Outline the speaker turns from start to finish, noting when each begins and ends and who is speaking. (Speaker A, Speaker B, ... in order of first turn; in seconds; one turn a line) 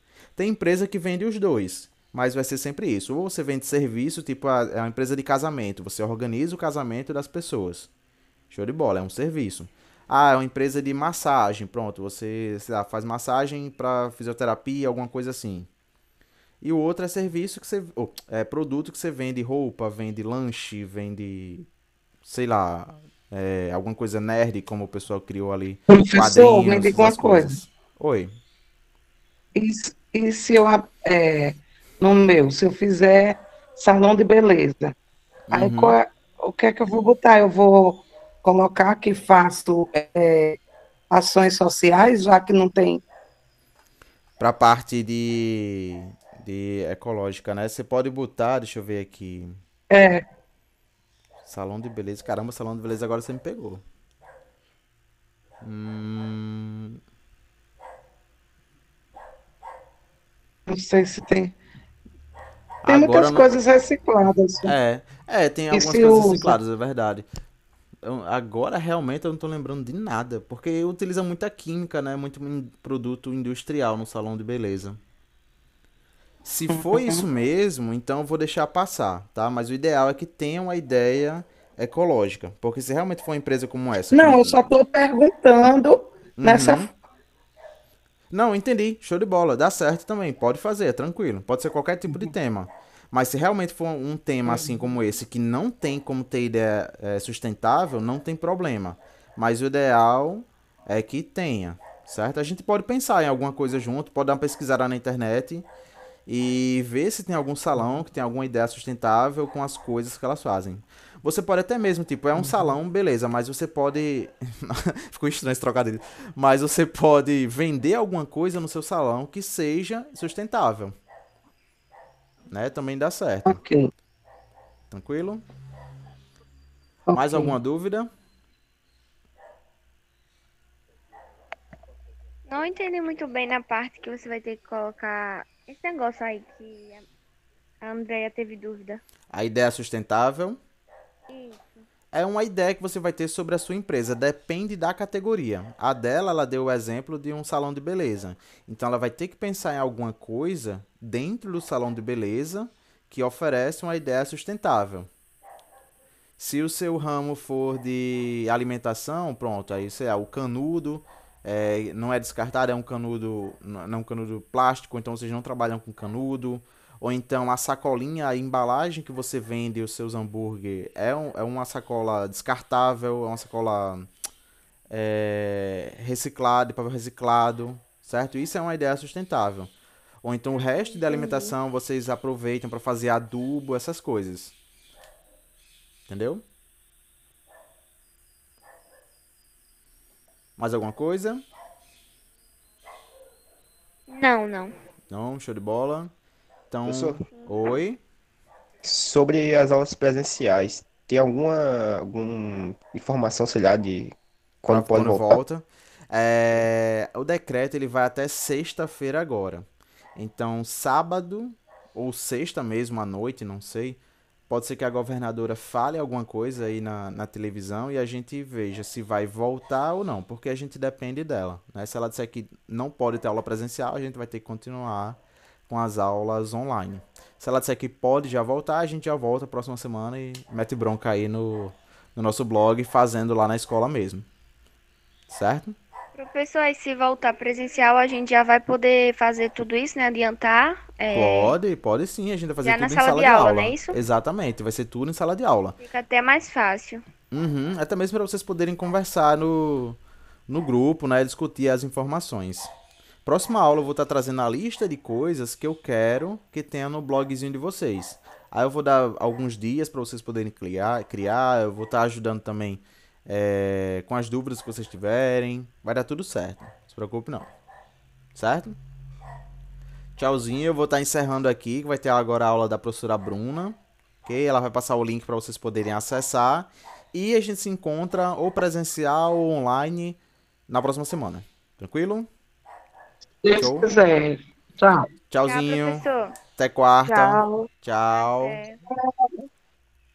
Speaker A: 0.4-7.9
Speaker A: 8.5-15.7
Speaker A: 16.6-21.7
Speaker A: 22.2-28.4
Speaker B: 25.9-27.6
Speaker B: 29.6-35.0
Speaker A: 35.5-36.0
Speaker B: 35.5-40.6
Speaker B: 41.1-43.0
Speaker A: 44.4-49.6
Speaker B: 49.9-50.2
Speaker A: 51.4-53.8
Speaker A: 55.6-57.0
Speaker B: 60.7-61.5
Speaker A: 62.8-63.5
Speaker B: 62.9-64.7
Speaker A: 64.7-67.3
Speaker B: 65.7-66.5
Speaker A: 68.0-75.0
Speaker A: 76.5-84.7
Speaker B: 76.7-77.2
Speaker B: 84.1-86.9
Speaker A: 86.4-86.9
Speaker A: 88.3-105.7
Speaker A: 106.3-121.0
Speaker A: 122.5-123.6
Speaker B: 123.5-123.9
Speaker A: 124.9-125.4
Speaker B: 127.1-127.5
Speaker A: 127.1-128.1
Speaker C: 132.5-137.1
Speaker C: 137.8-139.0
Speaker A: 139.3-140.6
Speaker C: 141.3-141.8
Speaker A: 142.1-155.1
Speaker A: 156.4-174.1
Speaker A: 174.9-179.7
Speaker A: 180.2-184.6
Speaker C: 181.1-181.5
Speaker A: 186.1-186.4
Speaker A: 190.6-191.4
Speaker C: 194.1-194.7
Speaker A: 195.1-196.1
Speaker A: 196.7-198.0
Speaker D: 196.8-197.2
Speaker D: 198.8-205.4
Speaker A: 204.7-234.3
Speaker A: 235.3-235.8
Speaker C: 236.2-241.6
Speaker A: 241.1-245.8
Speaker C: 242.6-244.0
Speaker C: 245.8-247.1
Speaker A: 247.3-252.7
Speaker A: 253.2-267.5
Speaker A: 268.4-268.8
Speaker A: 270.2-282.3
Speaker B: 283.4-285.1
Speaker A: 283.6-283.9
Speaker A: 285.3-286.1
Speaker C: 285.5-286.3
Speaker A: 286.6-288.6
Speaker C: 287.1-288.8